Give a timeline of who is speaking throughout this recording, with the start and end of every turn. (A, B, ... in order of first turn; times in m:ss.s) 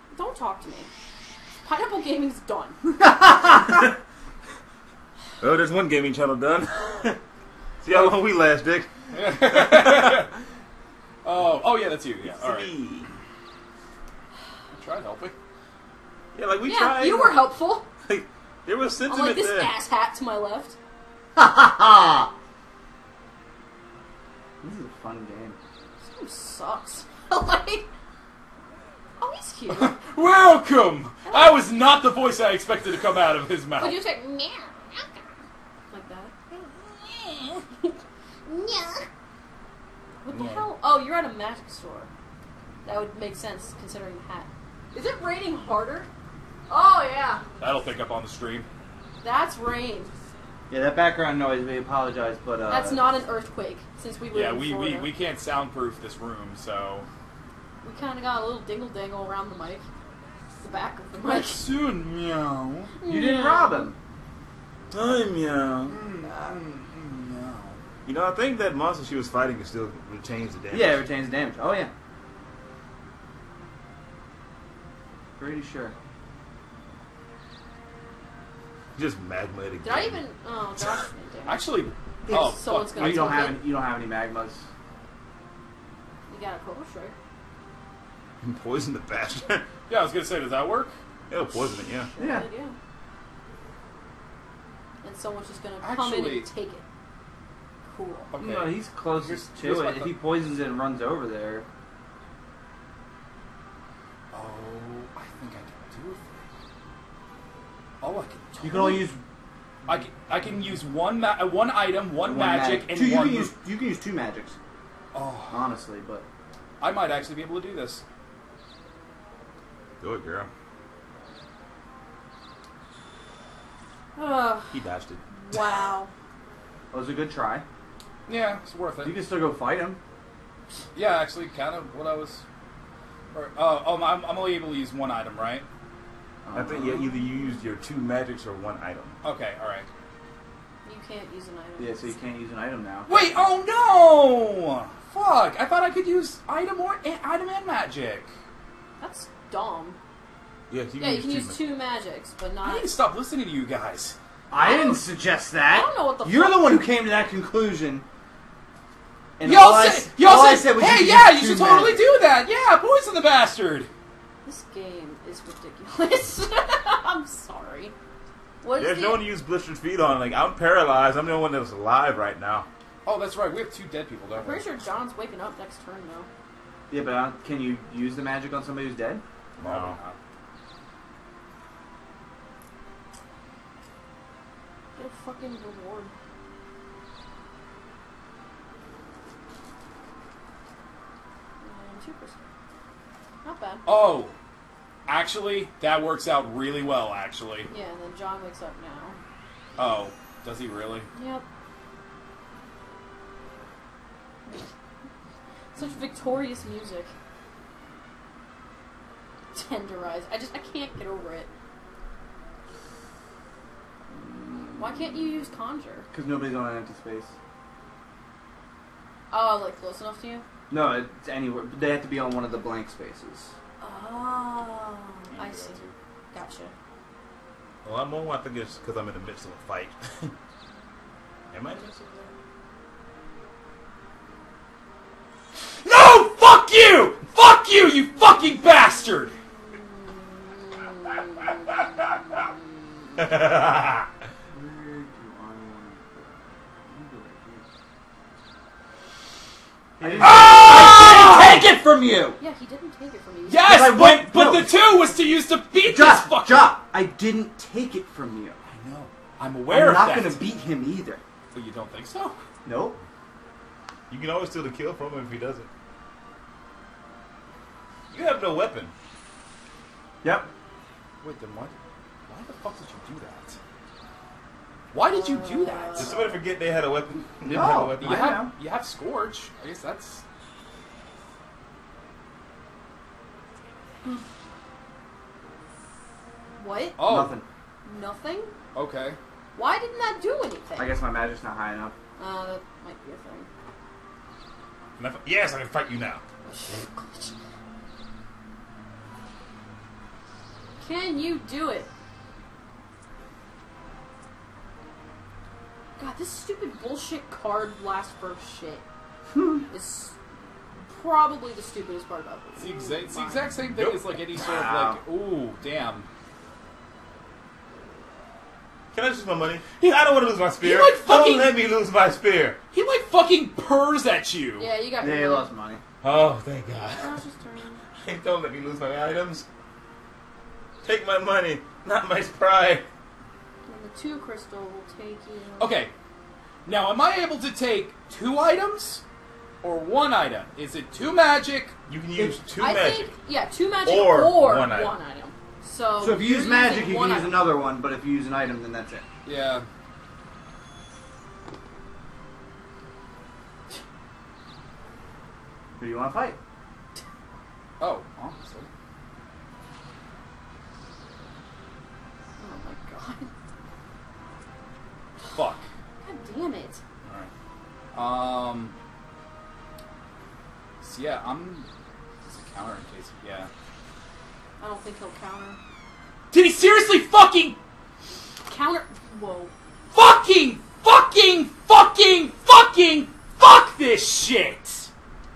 0:00.1-0:00.9 A
0:01.6-0:02.8 A
0:03.0-0:03.6 B
0:05.4-0:07.2 C
0:07.8-0:10.2 C
0:09.1-0:10.3 D
0:11.2-0:12.7 D
0:12.2-0:13.1 C
0:14.7-0:15.3 D
0:16.3-0:17.4 C
0:16.6-0:17.9 A
0:18.0-0:19.7 C
0:19.1-0:20.8 A
0:21.4-0:22.3 B
0:24.6-0:25.6 B
0:26.0-0:27.9 A
0:29.2-0:30.0 A
0:29.7-0:34.0 D
0:31.3-0:31.6 A
0:33.8-0:35.2 A
0:35.9-0:36.6 A
0:37.4-0:39.1 A
0:40.2-0:42.1 A
0:40.3-0:40.6 C
0:42.8-0:46.1 A
0:46.7-0:47.4 A
0:47.6-0:48.7 D
0:49.2-0:50.1 A
0:50.7-0:53.0 B
0:52.7-0:55.1 A
0:54.3-0:57.1 D
0:57.8-0:59.8 A
1:00.6-1:01.7 A
1:01.2-1:02.9 D
1:03.0-1:03.9 A
1:03.0-1:04.0 B
1:04.9-1:06.0 C
1:05.8-1:07.8 D
1:08.0-1:11.0 C
1:10.7-1:11.9 B
1:15.4-1:15.9 B
1:18.9-1:20.2 C
1:19.8-1:21.7 A
1:21.5-1:23.6 D
1:22.3-1:24.6 B
1:22.3-1:23.6 A
1:26.3-1:27.1 A
1:28.4-1:29.6 C
1:29.9-1:31.0 D
1:31.3-1:32.1 C
1:32.1-1:32.8 A
1:32.2-1:32.5 B
1:35.0-1:36.8 A
1:35.8-1:36.5 D
1:37.8-1:38.3 A
1:38.3-1:40.2 D
1:38.4-1:41.6 B
1:44.3-1:46.4 D
1:48.0-1:49.1 D
1:48.6-1:49.2 B
1:49.8-1:53.5 D
1:52.2-1:54.6 B
1:55.1-1:55.6 D
1:55.5-1:56.2 B
1:56.8-1:58.0 D
2:00.0-2:00.5 C
2:04.2-2:04.8 A
2:04.7-2:05.2 C
2:05.4-2:06.1 A
2:06.9-2:07.6 B
2:08.3-2:09.2 D
2:09.0-2:10.0 B
2:10.9-2:12.4 D
2:13.3-2:15.6 D
2:16.4-2:17.0 B
2:16.5-2:19.2 C
2:19.2-2:19.9 D
2:20.8-2:22.1 A
2:21.8-2:23.3 B
2:23.1-2:28.3 D
2:29.0-2:30.0 A
2:30.7-2:31.6 C
2:31.0-2:32.9 A
2:32.6-2:34.2 D
2:34.5-2:38.0 B
2:34.5-2:35.1 A
2:35.7-2:36.7 A
2:39.4-2:42.1 B
2:39.4-2:43.9 D
2:44.4-2:47.9 A
2:48.6-2:49.2 A
2:48.7-2:52.7 C
2:53.0-2:54.7 D
2:54.4-2:56.3 A
2:56.9-2:59.2 B
2:59.6-3:00.0 C
2:59.6-3:00.2 D
3:05.0-3:06.1 A
3:11.6-3:12.4 A
3:13.4-3:13.8 A
3:13.8-3:14.3 D
3:15.0-3:17.7 D
3:17.7-3:19.2 A
3:19.8-3:21.1 D
3:21.1-3:21.4 A
3:25.7-3:27.1 A
3:29.5-3:31.5 A
3:34.1-3:35.1 B
3:34.8-3:36.1 A
3:36.1-3:37.3 B
3:39.3-3:40.4 A
3:40.7-3:43.5 B
3:43.8-3:45.8 A
3:45.3-3:45.9 D
3:46.3-3:46.7 A
3:47.8-3:50.3 C
3:51.5-3:52.3 C
3:55.6-3:59.3 D
3:59.7-4:01.5 A
4:02.1-4:02.7 A
4:03.2-4:04.0 C
4:04.5-4:07.6 B
4:10.0-4:12.4 B
4:10.0-4:11.7 D
4:10.2-4:10.6 C
4:12.4-4:13.6 A
4:13.5-4:16.7 D
4:13.6-4:14.7 B
4:15.8-4:18.6 B
4:18.6-4:20.5 D
4:19.7-4:21.2 B
4:21.5-4:22.4 D
4:22.6-4:23.0 B
4:24.1-4:25.7 C
4:28.1-4:28.9 C
4:30.2-4:30.5 B
4:31.2-4:31.8 D
4:32.3-4:33.6 D
4:34.9-4:36.3 D
4:35.0-4:36.1 A
4:36.0-4:38.2 C
4:37.5-4:38.5 B
4:37.5-4:40.2 D
4:46.6-4:47.0 A
4:47.0-4:47.4 D
4:47.0-4:47.5 B
4:47.8-4:48.5 A
4:48.7-4:49.2 D
4:49.5-4:51.0 A
4:50.8-4:51.9 B
4:52.2-4:53.5 A
4:55.0-4:56.2 C
4:56.4-4:57.4 A
5:00.8-5:01.9 A
5:06.0-5:08.8 A
5:09.7-5:10.2 A
5:10.8-5:13.5 A
5:12.6-5:16.1 D
5:13.7-5:14.1 C
5:14.4-5:15.0 B
5:18.9-5:22.6 C
5:20.6-5:21.5 D
5:22.7-5:24.7 D
5:24.6-5:25.5 A
5:25.0-5:25.8 B
5:26.0-5:27.2 C
5:27.0-5:27.8 A
5:28.0-5:29.4 C
5:30.8-5:32.8 C
5:33.7-5:35.8 A
5:35.6-5:35.9 D
5:36.6-5:39.0 D
5:39.6-5:41.7 D
5:41.9-5:43.1 C
5:42.6-5:47.5 A
5:43.8-5:45.0 C
5:46.0-5:49.0 B
5:49.2-5:49.6 D
5:55.8-5:56.4 B
5:57.8-5:58.7 D
6:02.4-6:03.3 A
6:05.3-6:05.7 D
6:06.0-6:06.8 A
6:07.0-6:07.3 D
6:07.9-6:08.7 D
6:10.8-6:11.7 D
6:12.2-6:13.5 D
6:14.6-6:15.6 A
6:16.3-6:17.6 D
6:18.4-6:19.5 A
6:19.9-6:24.9 D